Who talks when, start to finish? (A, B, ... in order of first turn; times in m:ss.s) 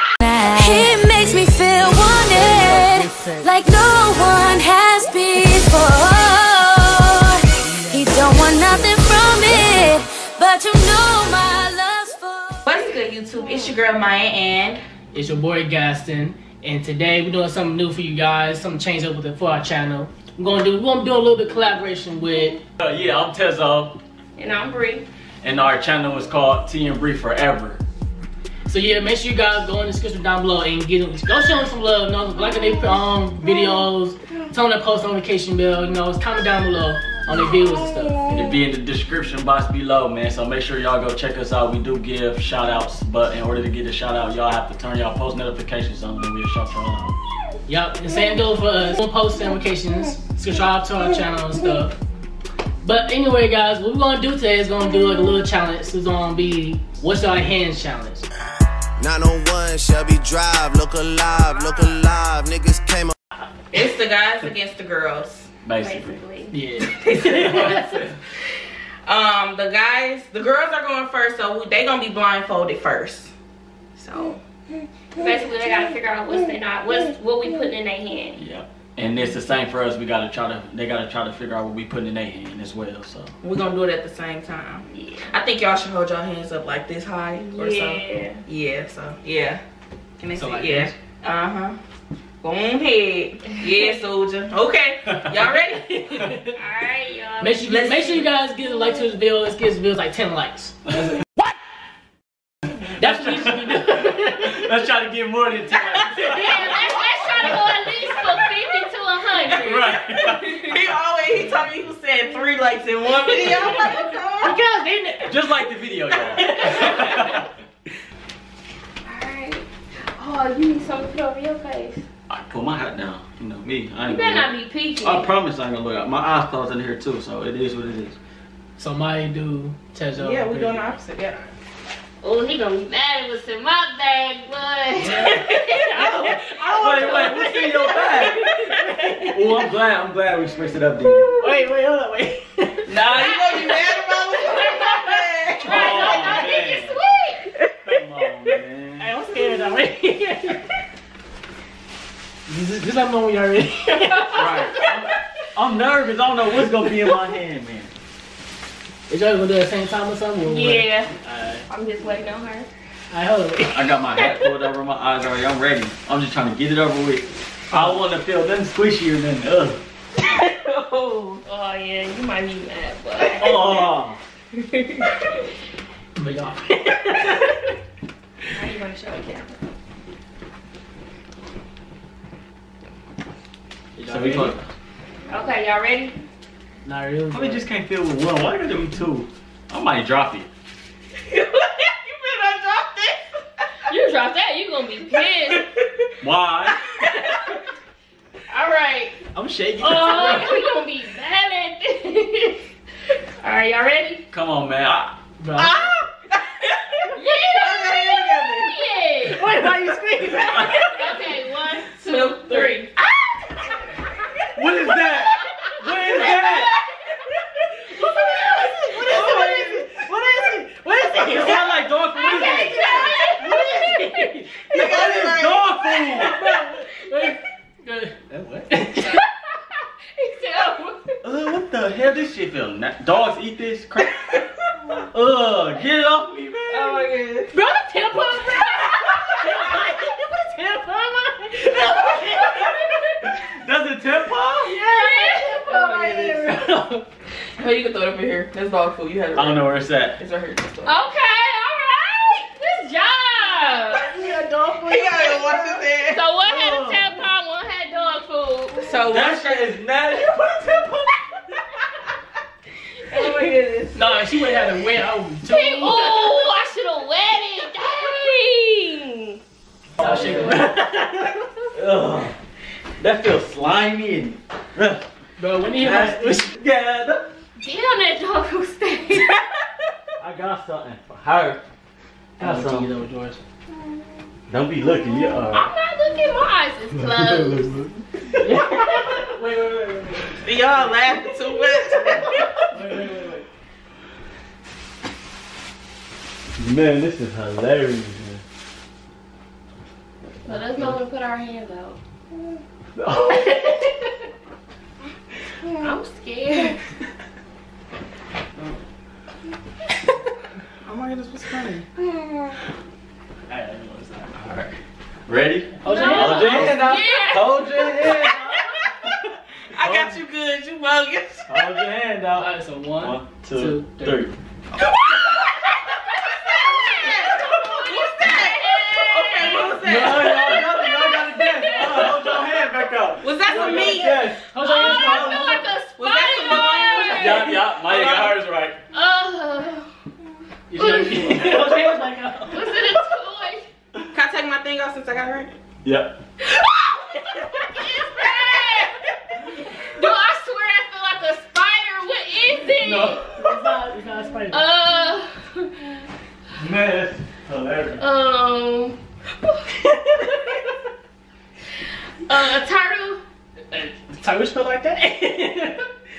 0:00.2-0:12.8 A
0:00.8-0:03.5 B
0:07.6-0:10.0 B
0:12.6-0:14.8 C
0:15.1-0:22.6 B
0:22.8-0:24.0 D
0:24.4-0:25.1 E
0:25.4-0:27.8 D
0:28.7-0:38.2 B
0:38.3-0:47.2 D
0:47.7-0:52.0 B
0:52.8-0:58.3 B
0:59.0-1:03.1 F
1:03.7-1:05.5 C
1:05.6-1:06.2 D
1:05.8-1:06.5 E
1:06.5-1:08.0 B
1:06.9-1:07.8 C
1:07.3-1:08.2 D
1:09.1-1:13.3 C
1:14.0-1:14.4 C
1:15.2-1:18.4 E
1:18.4-1:23.3 D
1:23.4-1:29.6 C
1:27.5-1:28.4 E
1:30.2-1:31.8 C
1:30.4-1:30.9 B
1:32.4-1:35.9 C
1:35.1-1:35.4 D
1:35.6-1:36.6 B
1:36.6-1:38.0 E
1:37.4-1:40.9 B
1:37.7-1:38.3 C
1:43.0-1:44.7 B
1:43.0-1:46.7 D
1:46.1-1:46.5 B
1:46.3-1:50.1 E
1:49.4-1:50.7 D
1:50.4-1:54.6 C
1:53.3-1:54.1 E
1:54.4-1:55.4 B
1:55.3-1:57.5 D
1:56.2-1:57.5 B
1:59.0-2:02.0 E
2:02.3-2:08.2 D
2:04.1-2:05.3 E
2:08.8-2:10.9 B
2:10.2-2:11.5 C
2:12.2-2:16.1 E
2:15.0-2:19.6 B
2:16.5-2:18.5 D
2:19.3-2:21.3 D
2:21.4-2:23.0 B
2:22.9-2:26.2 C
2:23.1-2:25.1 E
2:25.6-2:27.5 E
2:25.6-2:27.0 D
2:27.8-2:29.1 D
2:29.0-2:30.7 B
2:32.5-2:34.7 B
2:34.0-2:34.9 E
2:34.3-2:37.9 D
2:39.1-2:41.6 B
2:40.4-2:41.1 E
2:41.7-2:42.7 E
2:43.1-2:43.9 B
2:43.7-2:49.8 D
2:44.2-2:44.5 E
2:50.2-2:51.4 C
2:51.4-2:53.7 E
2:53.3-2:54.2 D
2:54.6-2:55.1 E
2:56.2-2:57.7 B
2:58.5-2:59.6 E
3:04.0-3:04.6 B
3:04.0-3:04.6 D
3:05.3-3:06.2 E
3:06.8-3:07.6 B
3:07.3-3:10.5 D
3:11.3-3:13.2 C
3:13.9-3:15.7 E
3:16.2-3:16.8 D
3:18.5-3:19.1 E
3:18.6-3:19.1 C
3:19.4-3:20.6 B
3:19.8-3:22.6 E
3:23.4-3:24.2 E
3:24.3-3:25.2 D
3:25.4-3:25.8 B
3:25.6-3:28.8 C
3:27.1-3:29.5 E
3:29.3-3:31.0 B
3:30.2-3:30.8 D
3:30.8-3:32.9 E
3:32.0-3:32.9 C
3:34.6-3:36.7 D
3:37.8-3:44.9 B
3:39.0-3:43.0 D
3:42.2-3:43.9 E
3:44.7-3:45.7 C
3:44.7-3:46.4 D
3:46.0-3:49.2 B
3:50.2-3:51.2 E
3:51.2-3:54.3 D
3:55.1-3:57.1 D
3:56.7-3:57.5 C
3:57.5-4:02.8 B
3:58.5-3:58.8 E
4:03.2-4:04.8 D
4:04.6-4:07.1 B
4:04.9-4:05.6 E
4:05.6-4:06.6 C
4:07.6-4:11.0 C
4:09.3-4:10.2 D
4:10.8-4:14.1 E
4:13.9-4:15.8 B
4:14.9-4:16.2 C
4:16.1-4:18.9 E
4:16.4-4:17.2 D
4:18.8-4:19.6 C
4:19.1-4:20.9 D
4:23.1-4:24.2 C
4:23.9-4:26.3 B
4:25.5-4:29.4 E
4:30.0-4:30.8 D
4:30.0-4:31.4 B
4:31.7-4:32.4 D
4:33.0-4:35.0 D
4:35.4-4:36.6 B
4:35.8-4:37.3 D
4:37.6-4:39.4 E
4:40.2-4:41.6 D
4:42.4-4:42.9 D
4:42.4-4:43.4 B
4:44.5-4:45.7 D
4:45.5-4:47.7 E
4:47.0-4:47.9 D
4:48.4-4:50.4 B
4:50.4-4:52.3 C
4:52.4-4:53.4 B
4:52.7-4:53.2 D
4:56.6-4:58.4 D
5:00.4-5:02.0 E
5:03.0-5:03.6 D
5:03.3-5:04.1 E
5:05.8-5:06.8 E
5:10.8-5:11.9 C
5:13.5-5:14.4 B
5:14.4-5:20.2 D
5:15.8-5:16.9 B
5:15.9-5:17.9 E
5:19.7-5:21.6 C
5:21.5-5:24.3 D
5:22.4-5:24.3 B
5:26.4-5:30.6 C
5:27.0-5:32.2 E
5:29.4-5:35.7 D
5:33.2-5:34.2 C
5:33.5-5:35.7 B
5:34.5-5:37.6 E
5:36.0-5:38.4 C
5:37.1-5:38.8 D
5:38.9-5:39.9 E
5:40.7-5:42.7 B
5:40.8-5:41.8 E
5:41.0-5:42.4 D
5:42.5-5:43.7 E
5:44.1-5:45.5 C
5:45.8-5:46.2 D
5:47.6-5:49.0 E
5:49.9-5:53.2 E
5:52.8-5:53.5 D
5:53.3-5:54.6 B
5:54.5-5:55.7 E
5:56.6-5:58.0 D
5:58.0-6:00.2 E
6:02.3-6:03.2 E
6:03.7-6:05.9 B